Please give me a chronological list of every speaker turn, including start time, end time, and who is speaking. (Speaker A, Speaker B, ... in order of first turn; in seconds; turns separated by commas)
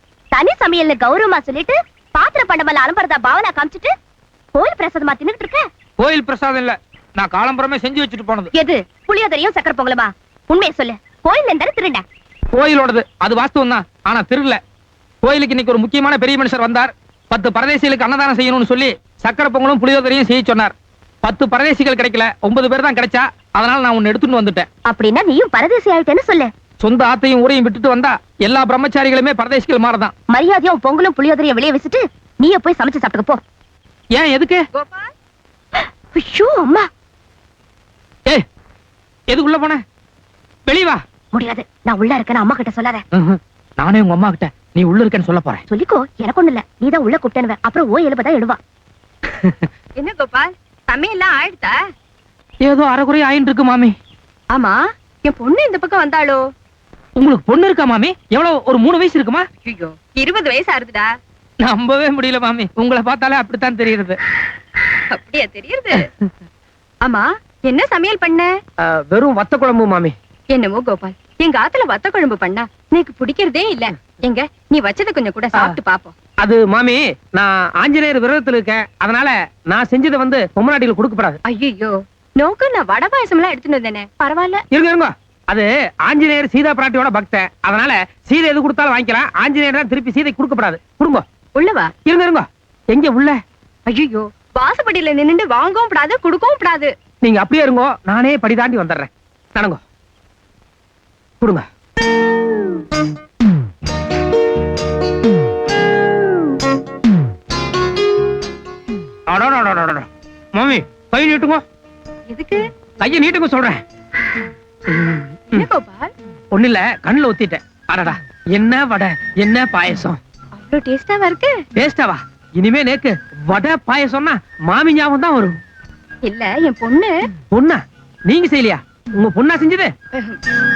Speaker A: 0.3-3.9, Speaker A: 4.5-5.7, Speaker B: 6.0-8.5, Speaker A: 8.5-12.0, Speaker B: 12.5-14.6, Speaker B: 15.2-24.7, Speaker A: 24.9-26.5, Speaker B: 26.8-30.1, Speaker A: 30.3-33.4, Speaker B: 34.1-34.6, Speaker C: 34.7-35.1, Speaker A: 35.8-36.9, Speaker B: 39.3-39.8, Speaker B: 40.7-41.0, Speaker A: 41.3-43.0, Speaker B: 43.1-45.6, Speaker A: 45.7-48.6, Speaker C: 50.0-51.8, Speaker B: 52.6-54.0, Speaker C: 54.5-56.4, Speaker B: 57.2-59.5, Speaker C: 59.6-61.1, Speaker B: 61.6-64.2, Speaker C: 65.1-66.1, Speaker C: 67.0-68.5, Speaker B: 68.9-70.2, Speaker C: 70.5-76.1, Speaker B: 76.4-81.4, Speaker C: 81.5-84.6, Speaker B: 84.7-91.2, Speaker C: 91.6-91.9, Speaker B: 92.1-93.4, Speaker C: 93.9-96.9, Speaker B: 97.2-99.8, Speaker B: 109.3-111.6, Speaker C: 112.3-112.6, Speaker B: 113.0-113.8, Speaker B: 114.9-115.7, Speaker C: 115.5-116.1, Speaker B: 116.5-120.2, Speaker C: 120.6-121.6, Speaker B: 121.8-125.5, Speaker C: 126.2-127.1, Speaker B: 127.5-129.9